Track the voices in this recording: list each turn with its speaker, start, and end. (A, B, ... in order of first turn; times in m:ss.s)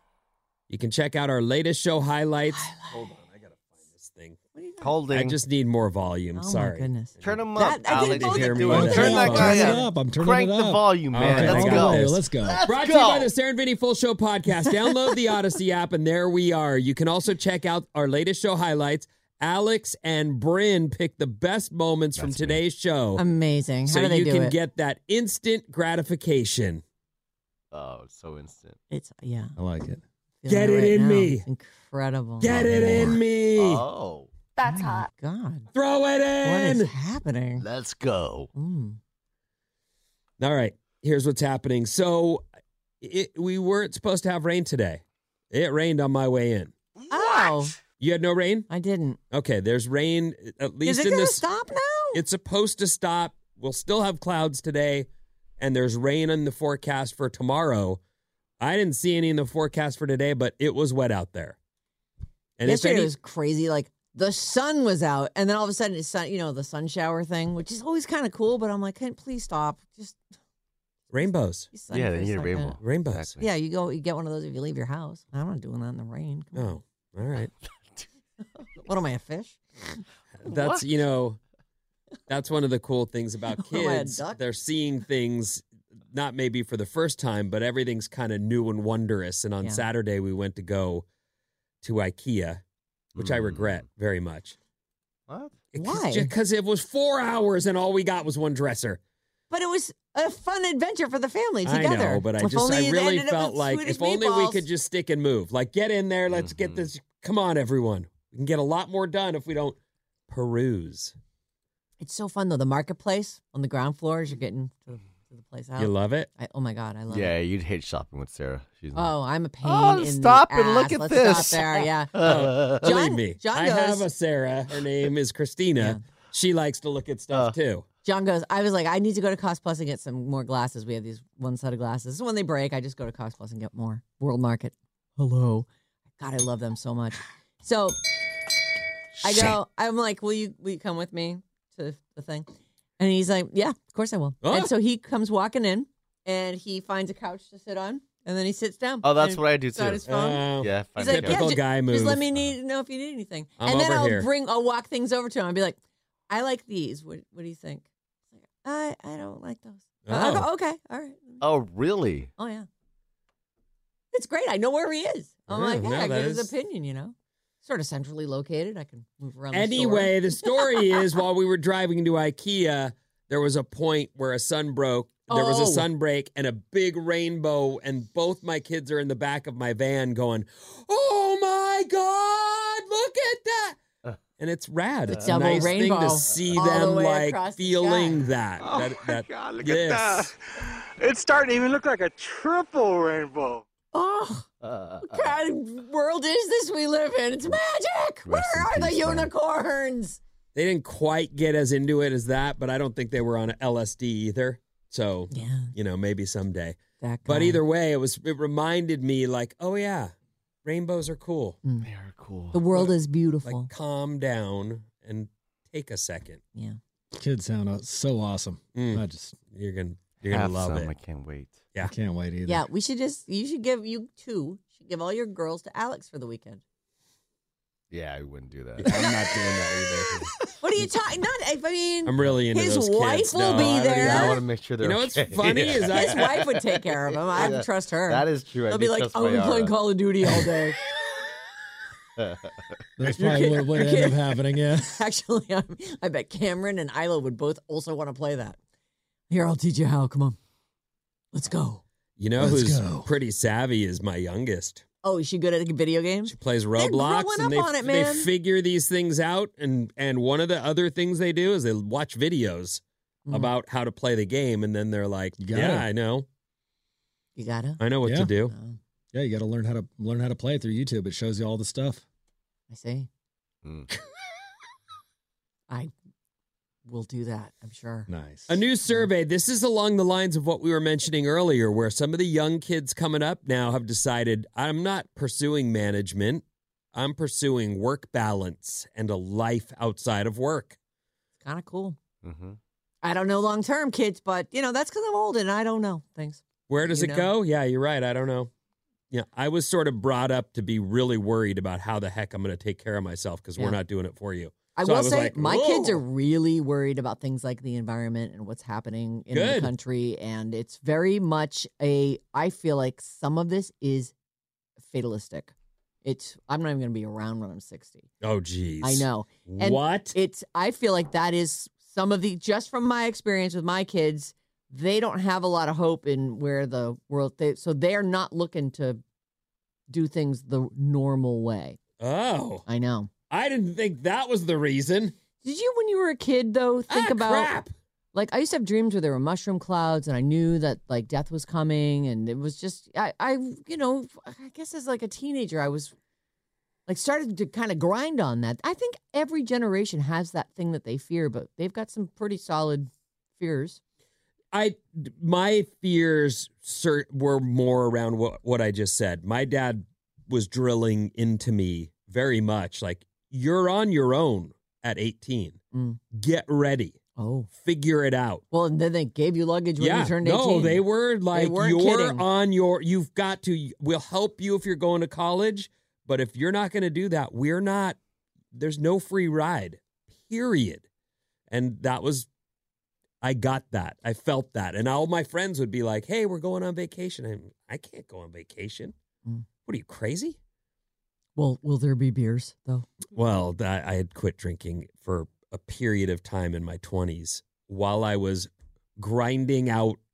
0:00.7-0:04.4 A
0:02.5-0:03.0 B
0:04.5-0:04.9 B
0:04.8-0:05.4 C
0:05.1-0:09.8 A
0:06.4-0:09.8 B
0:07.2-0:13.3 C
0:08.7-0:12.6 D
0:11.1-0:23.2 A
0:14.5-0:14.9 B
0:22.2-0:22.6 C
0:23.2-0:24.5 B
0:23.9-0:26.8 A
0:27.7-0:28.8 C
0:28.9-0:29.5 B
0:29.6-0:30.0 D
0:30.4-0:33.1 B
0:30.5-0:31.4 A
0:32.4-0:33.9 A
0:32.5-0:34.3 C
0:32.5-0:33.2 D
0:34.6-0:35.7 B
0:35.7-0:36.9 A
0:36.4-0:37.6 B
0:37.6-0:38.5 C
0:38.5-0:39.0 B
0:40.4-0:42.4 A
0:43.0-0:46.7 A
0:47.1-0:47.8 B
0:48.0-0:48.7 A
0:48.7-0:49.2 B
0:49.3-0:51.4 A
0:50.8-0:52.2 B
0:52.1-0:55.1 A
0:55.6-0:58.0 A
0:58.6-1:01.6 A
1:02.6-1:03.1 A
1:02.6-1:10.2 B
1:11.1-1:11.7 A
1:11.7-1:12.8 B
1:11.9-1:13.4 C
1:12.8-1:13.4 A
1:13.4-1:16.8 B
1:16.5-1:17.5 A
1:18.8-1:20.0 B
1:20.4-1:21.4 A
1:20.4-1:20.8 C
1:22.3-1:31.0 A
1:23.6-1:24.4 B
1:31.8-1:32.6 A
1:33.2-1:33.8 C
1:33.2-1:34.5 A
1:35.3-1:35.6 C
1:35.7-1:39.0 A
1:35.7-1:36.3 B
1:39.5-1:44.6 B
1:41.6-1:49.8 A
1:46.3-1:46.9 C
1:50.3-1:51.1 A
1:52.0-1:57.3 B
1:55.8-1:56.3 A
1:57.1-2:02.9 C
1:58.9-2:02.1 B
2:02.2-2:07.8 A
2:02.8-2:04.0 B
2:08.0-2:15.7 B
2:16.2-2:18.0 B
2:19.2-2:30.4 B
2:24.4-2:24.7 A
2:29.0-2:31.5 C
2:30.1-2:32.3 A
2:31.0-2:35.8 B
2:33.6-2:34.3 A
2:36.3-2:37.9 B
2:38.4-2:41.4 B
2:40.1-2:40.5 A
2:41.4-2:42.3 C
2:42.4-2:42.7 B
2:44.1-2:51.2 B
2:45.5-2:46.5 A
2:49.5-3:03.8 A
2:55.3-2:55.9 B
3:04.4-3:10.3 A
3:05.1-3:05.8 C
3:05.1-3:08.2 B
3:09.3-3:10.2 E
3:11.0-3:13.6 E
3:13.9-3:14.5 B
3:14.6-3:15.4 C
3:15.0-3:20.2 B
3:18.2-3:19.3 C
3:20.5-3:30.1 A
3:25.3-3:25.7 B
3:27.0-3:27.6 B
3:30.6-3:31.6 A
3:31.8-3:32.7 C
3:32.5-3:33.7 B
3:33.4-3:36.4 A
3:37.1-3:39.4 D
3:38.7-3:40.9 A
3:40.2-3:41.6 C
3:41.8-3:42.6 D
3:42.4-3:46.6 B
3:47.9-3:49.4 C
3:48.8-3:50.2 A
3:48.9-3:49.2 B
3:50.1-3:50.4 C
3:50.6-3:54.4 B
3:52.0-3:56.4 A
3:53.5-4:00.5 C
3:55.9-4:00.8 B
4:02.2-4:02.7 C
4:03.0-4:05.0 D
4:03.2-4:08.6 B
4:09.3-4:10.4 B
4:11.3-4:11.8 B
4:12.2-4:14.8 A
4:12.4-4:13.1 D
4:15.0-4:18.3 B
4:16.3-4:26.2 A
4:23.2-4:23.5 B
4:25.4-4:25.9 D
4:27.4-4:27.8 B
4:27.8-4:28.5 A
4:28.0-4:28.3 D
4:28.5-4:28.8 B
4:29.1-4:32.0 D
4:32.7-4:33.1 B
4:33.6-4:33.9 C
4:36.9-4:38.1 B
4:38.1-4:38.6 D
4:38.5-4:50.8 A
4:51.4-4:52.0 B
4:52.2-4:52.6 C
4:53.0-4:57.3 B
4:56.7-4:58.5 A
4:59.1-5:06.0 A
5:04.7-5:14.1 B
5:09.3-5:09.7 A
5:14.8-5:15.5 B
5:16.0-5:18.1 B
5:18.2-5:20.1 A
5:18.8-5:29.0 B
5:29.9-5:31.8 B
5:32.0-5:32.6 A
5:32.7-5:33.1 B
5:33.3-5:35.1 A
5:35.4-5:37.5 B
5:36.9-5:37.7 A
5:38.1-5:45.9 B
5:46.9-5:53.8 B
5:54.5-6:05.6 A
6:05.7-6:06.0 B
6:06.1-6:07.0 A
6:07.2-6:07.5 B
6:07.6-6:08.4 A
6:08.5-6:12.2 B
6:09.8-6:18.0 A
6:18.5-6:20.9 A
6:21.5-6:22.3 A
6:23.2-6:28.9 A
6:29.6-6:30.4 A
6:31.4-6:32.9 B
6:33.1-6:40.0 A